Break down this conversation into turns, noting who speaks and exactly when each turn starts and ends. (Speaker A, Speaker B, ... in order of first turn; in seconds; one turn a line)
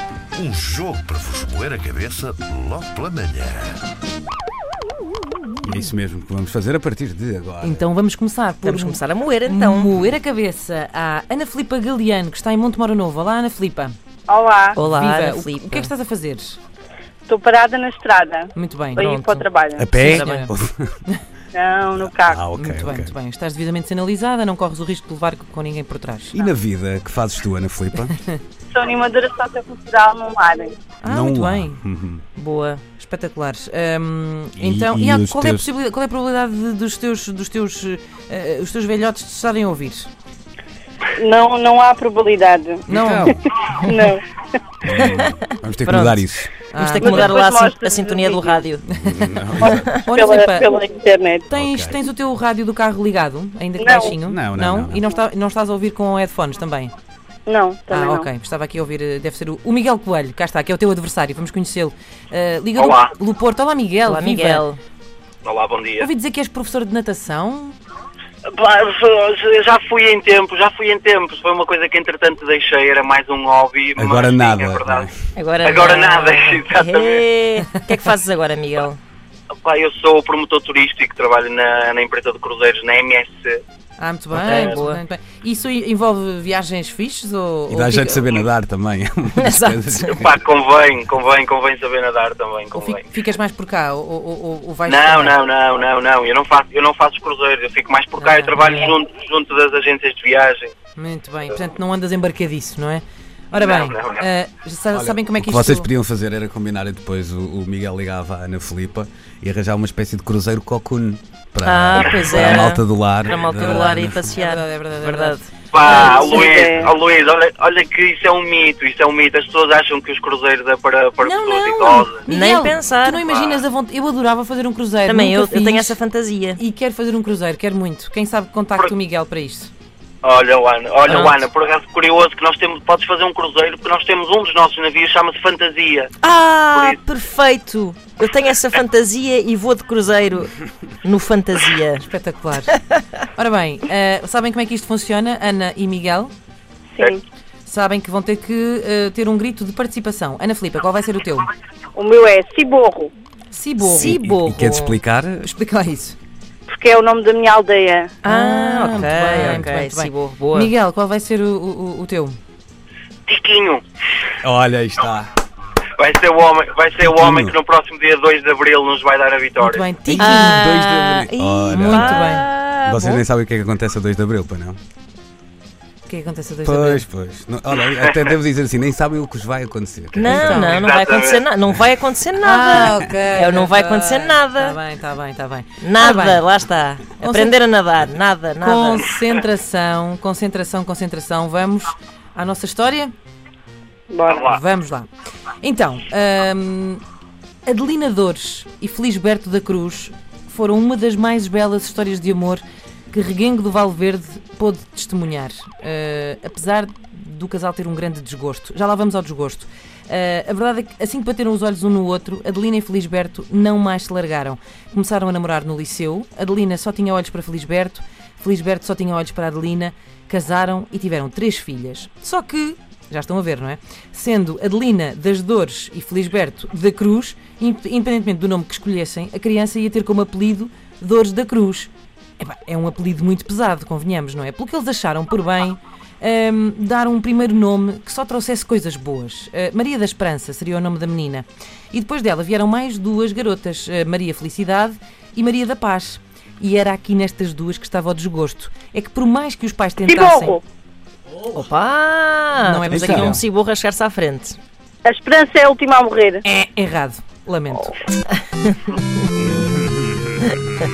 Speaker A: 0.3-3.8
Speaker B: 5.6-7.9
Speaker C: 7.6-13.9
Speaker D: 8.6-10.0
Speaker E: 14.3-14.8
Speaker D: 14.8-15.9
Speaker C: 14.8-16.6
Speaker E: 17.3-19.9
Speaker C: 18.6-19.1
Speaker D: 18.9-20.5
Speaker B: 19.8-21.0
Speaker C: 20.0-20.5
Speaker E: 21.5-22.4
Speaker B: 22.0-23.1
Speaker C: 22.5-26.4
Speaker B: 26.3-28.2
Speaker E: 28.7-30.8
Speaker C: 31.0-31.8
Speaker B: 31.0-32.2
Speaker D: 32.4-32.8
Speaker C: 33.0-40.1
Speaker B: 34.5-35.7
Speaker E: 41.2-42.8
Speaker B: 42.9-43.4
Speaker C: 42.9-43.4
Speaker E: 43.5-44.2
Speaker D: 43.7-44.1
Speaker B: 44.8-46.5
Speaker D: 45.0-48.8
Speaker C: 46.7-47.4
Speaker E: 47.0-48.6
Speaker B: 48.9-50.0
Speaker C: 48.9-49.3
Speaker E: 49.6-51.5
Speaker C: 50.0-50.7
Speaker C: 51.5-56.9
Speaker B: 51.5-52.0
Speaker E: 53.8-54.1
Speaker B: 54.1-55.0
Speaker E: 57.5-58.3
Speaker C: 57.9-64.7
Speaker F: 62.7-63.1
Speaker D: 64.0-64.8
Speaker F: 65.5-66.1
Speaker C: 66.0-67.8
Speaker F: 68.5-75.1
Speaker B: 74.0-75.1
Speaker D: 75.3-79.0
Speaker F: 75.6-77.2
Speaker F: 79.6-83.6
Speaker C: 84.0-88.3
Speaker D: 84.3-85.0
Speaker B: 87.7-90.4
Speaker D: 89.4-90.2
Speaker F: 90.1-93.1
Speaker C: 92.8-95.4
Speaker F: 94.9-100.7
Speaker C: 98.2-98.9
Speaker C: 101.0-105.9
Speaker F: 103.5-104.2
Speaker B: 104.9-114.2
Speaker D: 111.6-115.4
Speaker C: 113.6-115.5
Speaker F: 115.7-122.2
Speaker E: 115.8-116.9
Speaker D: 121.2-123.2
Speaker C: 122.2-126.0
Speaker F: 123.2-123.6
Speaker D: 125.1-126.6
Speaker C: 126.6-129.7
Speaker F: 130.2-136.1
Speaker D: 131.1-131.4
Speaker D: 136.2-142.1
Speaker C: 142.0-142.8
Speaker C: 143.4-146.3
Speaker C: 147.7-151.5
Speaker E: 151.9-153.1
Speaker C: 153.5-154.2
Speaker D: 153.8-155.0
Speaker B: 153.9-155.5
Speaker C: 155.4-156.2
Speaker E: 156.7-158.1
Speaker D: 158.2-160.7
Speaker C: 158.2-162.4
Speaker B: 158.9-159.7
Speaker F: 163.3-163.8
Speaker B: 164.4-165.3
Speaker F: 166.0-169.8
Speaker B: 167.0-167.6
Speaker C: 169.6-170.7
Speaker B: 170.1-174.8
Speaker D: 170.2-173.2
Speaker C: 171.7-172.5
Speaker C: 176.1-177.1
Speaker B: 176.7-180.8
Speaker D: 180.1-184.8
Speaker C: 180.3-180.9
Speaker F: 180.8-181.4
Speaker C: 182.4-186.5
Speaker D: 185.8-189.1
Speaker C: 187.2-187.6
Speaker C: 188.6-193.1
Speaker E: 194.1-194.5
Speaker F: 194.3-194.6
Speaker C: 194.4-195.1
Speaker C: 195.6-197.0
Speaker C: 197.7-250.6
Speaker E: 250.1-250.6
Speaker D: 251.5-254.6
Speaker C: 252.6-253.4
Speaker B: 252.9-253.4
Speaker E: 255.1-256.4
Speaker C: 256.4-257.9
Speaker B: 259.4-260.6